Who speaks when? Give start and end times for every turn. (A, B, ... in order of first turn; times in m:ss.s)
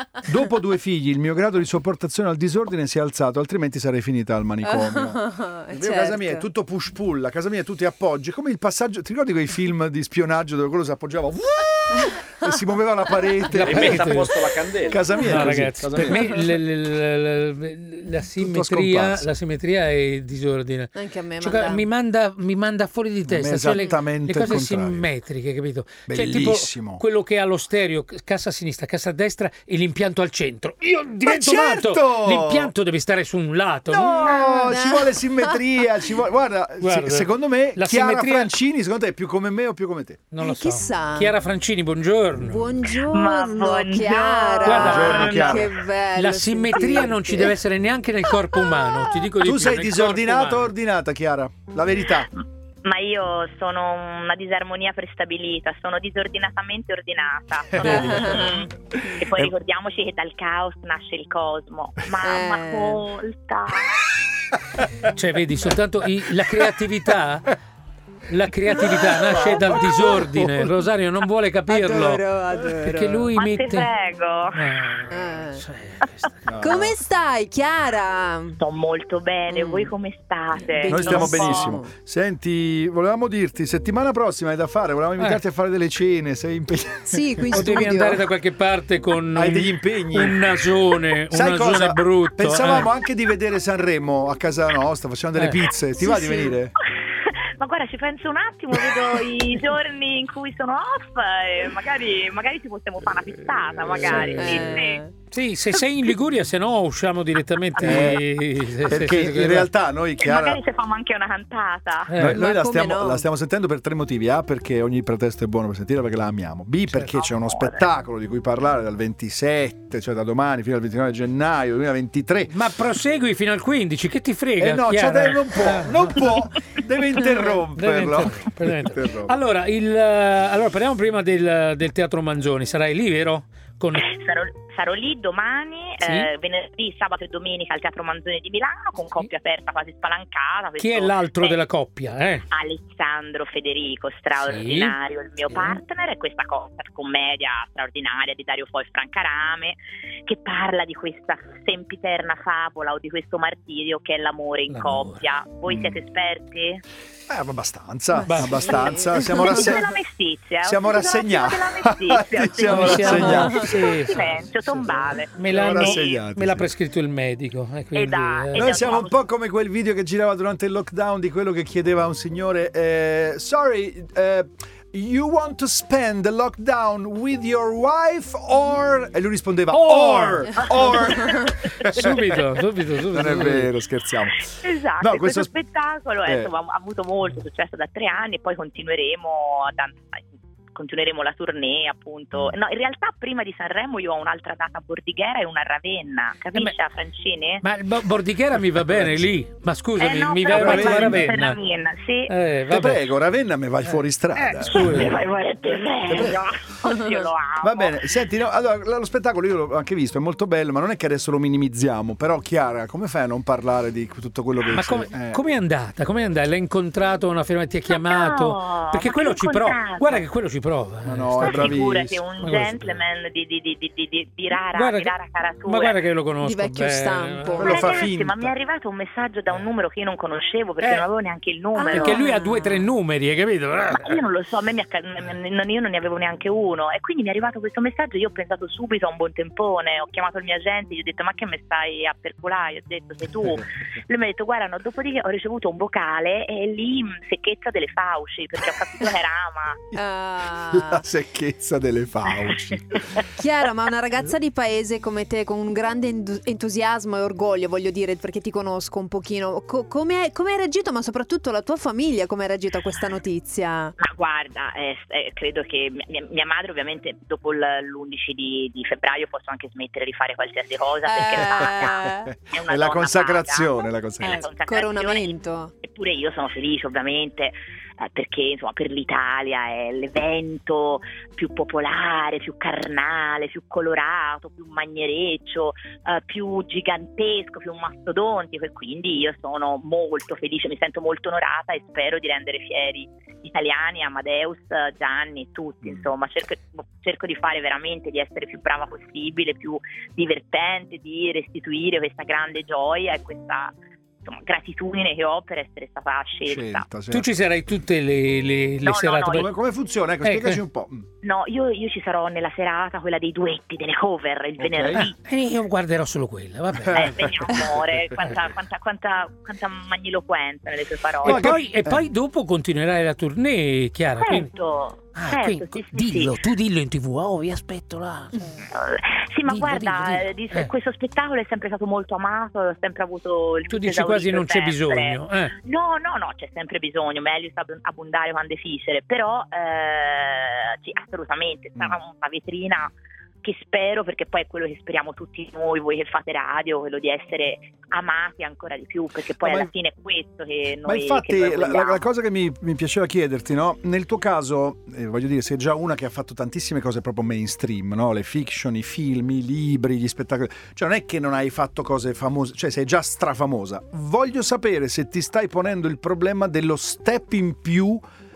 0:00.2-0:14.2 A
0:04.6-0:06.5 B
0:13.5-0:14.4 C
0:13.6-0:16.2 D
0:14.9-0:16.2 A
0:15.2-0:34.4 C
0:18.4-0:19.3 A
0:21.0-0:21.9 B
0:23.3-0:25.1 A
0:26.1-0:27.0 A
0:31.2-0:32.7 A
0:33.9-0:40.2 A
0:34.2-0:35.9 B
0:36.8-0:38.5 C
0:40.3-0:42.6 C
0:40.4-0:41.3 B
0:42.4-0:47.6 B
0:42.9-0:45.6 E
0:44.6-0:45.6 C
0:44.8-0:45.7 A
0:46.2-0:50.7 C
0:49.4-0:52.3 A
0:52.3-1:04.0 E
0:57.7-0:59.5 A
0:57.8-0:59.2 B
1:02.2-1:03.0 B
1:05.1-1:07.6 C
1:08.3-1:12.2 C
1:09.1-1:10.7 A
1:09.4-1:09.8 B
1:11.7-1:13.3 B
1:12.8-1:13.9 C
1:13.4-1:14.7 E
1:14.6-1:16.4 C
1:15.1-1:15.6 B
1:16.5-1:17.0 A
1:16.6-1:18.6 B
1:18.6-1:21.8 E
1:19.5-1:19.9 B
1:20.5-1:21.9 B
1:20.8-1:27.8 A
1:27.1-1:28.3 B
1:27.5-1:32.9 C
1:29.3-1:30.4 A
1:31.3-1:36.8 A
1:35.4-1:35.6 C
1:36.0-1:36.6 B
1:37.2-1:45.0 E
1:43.9-1:49.7 C
1:44.3-1:45.1 B
1:47.8-1:48.2 E
1:47.8-1:48.2 A
1:48.9-1:50.6 A
1:50.2-1:52.1 E
1:52.1-1:52.4 C
1:52.2-2:02.6 A
1:52.3-1:53.3 B
1:57.2-1:57.9 E
2:02.5-2:06.4 C
2:04.6-2:09.4 A
2:07.3-2:14.1 C
2:14.0-2:21.6 E
2:16.0-2:16.3 C
2:20.8-2:22.5 C
2:22.5-2:36.8 E
2:24.4-2:25.0 C
2:25.5-2:25.8 C
2:34.7-2:35.2 C
2:35.7-2:36.0 A
2:37.3-2:39.9 A
2:38.1-2:39.8 B
2:38.3-2:38.7 C
2:39.2-2:46.2 E
2:40.6-2:43.7 A
2:42.7-2:49.0 C
2:43.0-2:43.8 B
2:45.5-2:46.7 A
2:47.9-2:49.2 E
2:48.6-3:02.1 A
2:59.7-3:00.6 C
3:00.6-3:02.4 E
3:01.0-3:01.5 B
3:01.9-3:03.7 C
3:03.1-3:05.5 A
3:04.4-3:17.6 E
3:06.3-3:06.5 A
3:17.6-3:21.6 C
3:20.0-3:22.3 E
3:20.5-3:21.3 A
3:22.3-3:23.0 C
3:22.7-3:25.1 A
3:24.4-3:25.2 C
3:24.7-3:28.1 E
3:26.1-3:26.4 A
3:26.8-3:27.3 B
3:27.6-3:35.4 A
3:34.7-3:41.8 C
3:37.9-3:40.3 E
3:41.0-3:42.2 A
3:41.4-3:46.0 E
3:42.4-3:43.0 C
3:44.6-3:45.1 C
3:45.6-3:47.7 C
3:46.4-3:47.9 B
3:47.5-3:48.5 A
3:47.6-3:52.7 E
3:50.8-3:51.1 C
3:51.8-3:52.6 B
3:51.9-3:54.2 C
3:53.9-4:09.8 E
4:09.9-4:11.0 B
4:10.6-4:13.2 A
4:12.3-4:13.0 E
4:13.3-4:24.0 B
4:24.0-4:35.3 E
4:31.0-4:32.3 B
4:31.5-4:34.4 A
4:34.2-4:35.7 B
4:35.8-5:03.7 E
5:04.2-5:06.9 E
5:06.5-5:07.3 A
5:07.1-5:09.5 C
5:08.8-5:09.5 E
5:09.3-5:11.1 A
5:10.2-5:10.6 C
5:11.2-5:15.2 E
5:14.6-5:15.1 A
5:15.3-5:17.5 C
5:16.8-5:17.3 A
5:16.9-5:21.6 E
5:21.2-5:24.5 C
5:21.2-5:22.0 A
5:24.2-5:26.4 E
5:25.2-5:28.6 C
5:28.7-5:42.9 E
5:29.5-5:30.7 C
5:33.7-5:35.5 C
5:43.4-5:52.1 E
5:49.4-5:49.7 A
5:50.8-6:08.0 A